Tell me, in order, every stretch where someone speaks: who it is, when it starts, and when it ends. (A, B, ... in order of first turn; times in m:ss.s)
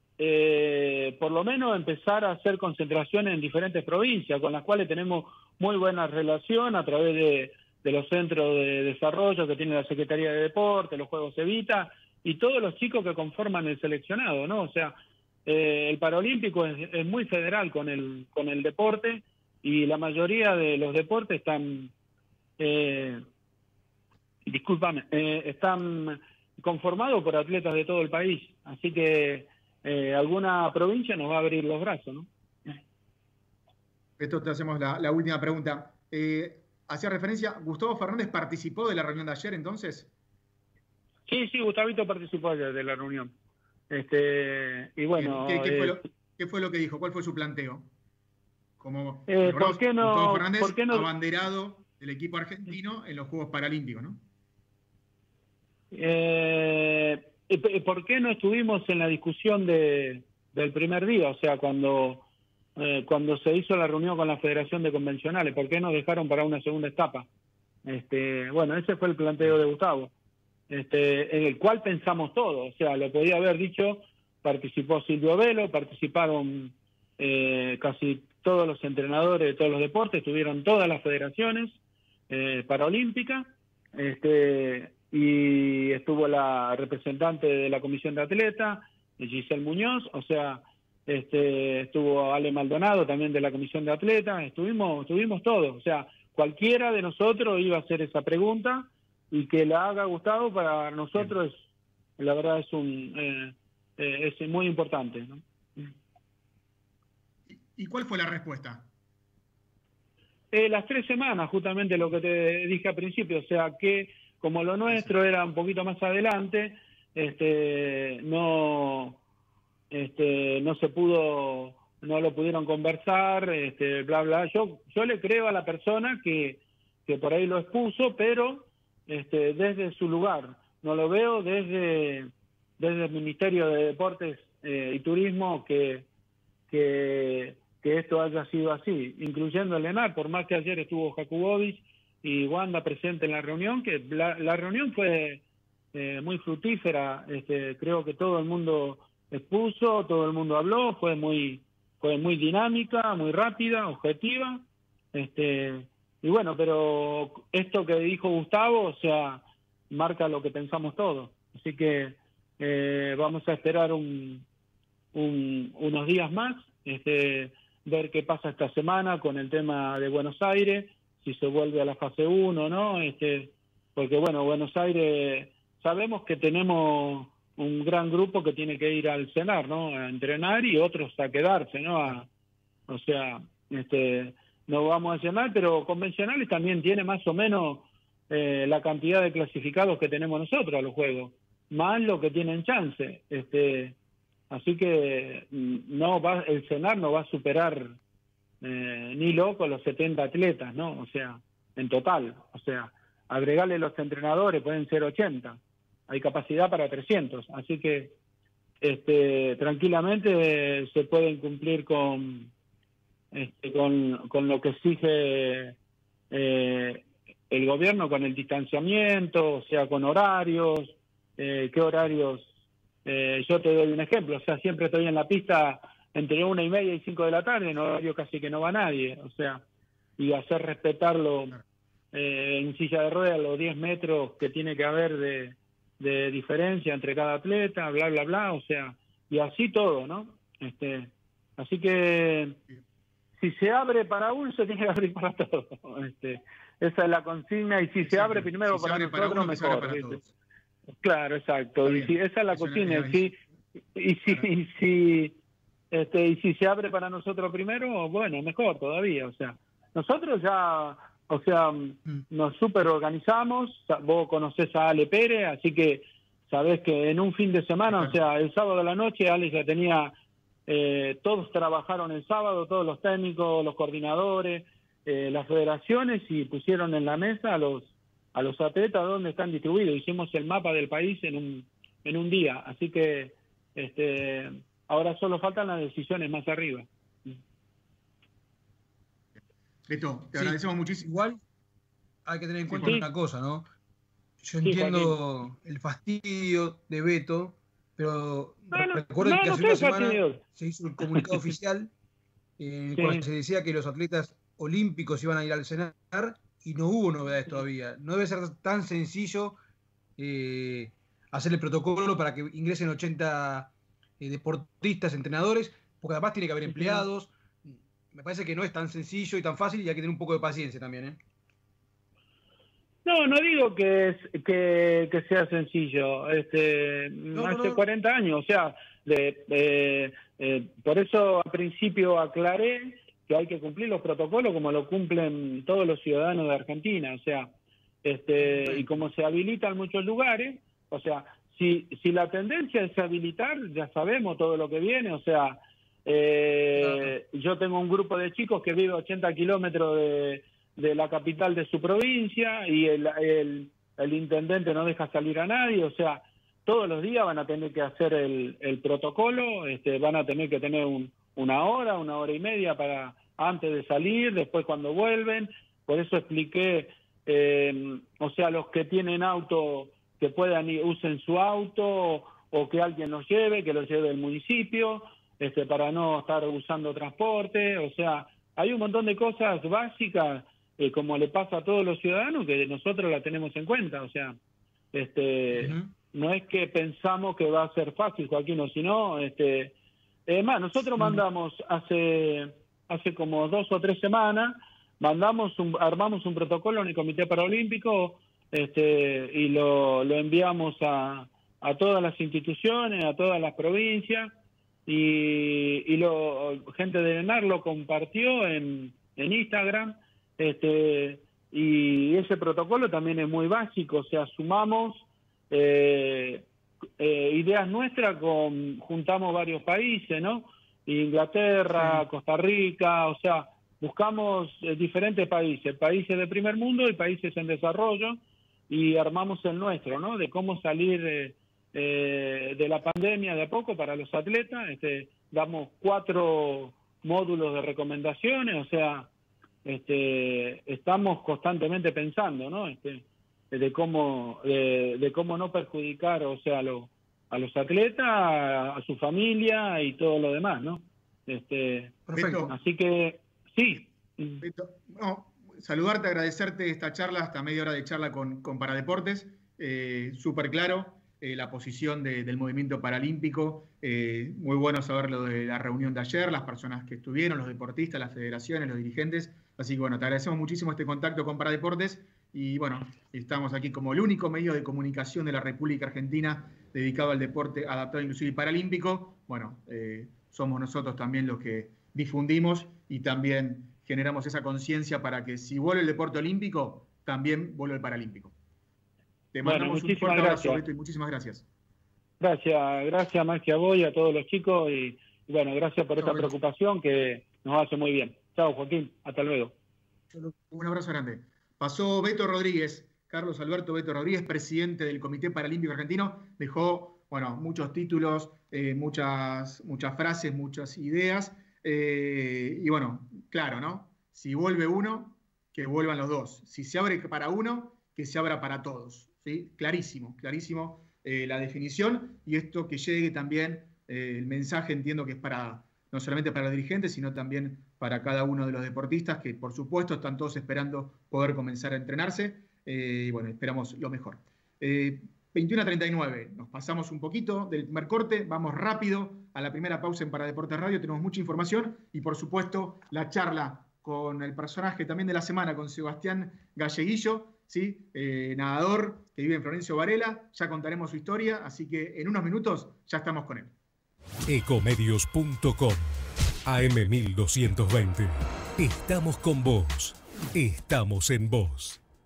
0:00.2-0:21.9 A
0:22.6-0:23.2 A
0:24.4-0:32.8 A
0:34.2-0:40.1 B
0:41.3-0:43.3 A
0:43.9-0:46.0 A
0:45.2-0:47.9 B
0:48.8-0:54.2 B
0:49.3-0:51.1 A
0:55.9-1:02.2 A
1:02.8-1:07.3 A
1:07.8-1:10.1 A
1:10.7-1:21.8 A
1:22.3-1:41.6 A
1:42.2-1:45.9 A
1:47.5-1:48.9 B
1:50.5-1:59.2 A
1:59.9-2:16.1 A
2:16.7-2:25.4 A
2:25.9-2:44.4 A
2:45.1-3:02.3 A
3:02.9-3:14.0 A
3:14.5-3:18.0 A
3:18.6-3:28.1 A
3:28.8-3:32.5 A
3:33.3-3:35.8 A
3:36.3-3:42.5 A
3:43.0-3:49.6 A
3:50.2-3:51.6 A
3:52.1-4:02.6 A
4:03.4-4:10.2 A
4:08.0-4:10.3 B
4:11.0-4:13.4 A
4:11.8-4:13.3 B
4:13.9-4:15.4 A
4:15.9-4:30.2 A
4:30.7-4:47.4 A
4:49.9-4:51.1 B
4:50.3-4:51.4 C
4:52.2-4:53.6 C
4:52.7-4:53.0 B
4:52.7-4:53.1 A
4:54.4-5:01.9 C
4:54.6-4:55.2 A
4:58.7-5:00.4 A
5:01.0-5:01.5 A
5:02.6-5:09.6 C
5:03.0-5:03.2 A
5:10.2-5:21.2 C
5:16.7-5:17.0 A
5:23.0-5:37.5 A
5:27.3-5:27.8 C
5:38.0-6:24.4 A
5:38.4-5:38.9 C
5:46.8-5:47.1 C
6:24.9-6:29.7 A
6:25.5-6:25.8 C
6:30.3-6:44.3 A
6:44.8-6:56.5 A
6:57.0-7:19.1 A
7:19.6-7:34.4 A
7:32.1-7:32.5 C
7:32.1-7:32.5 B
7:34.4-8:08.3 B
8:09.3-8:11.4 B
8:09.4-8:10.6 A
8:12.2-8:19.5 A
8:16.0-8:16.3 B
8:20.1-9:13.5 B
9:14.3-9:15.9 D
9:16.4-9:21.8 D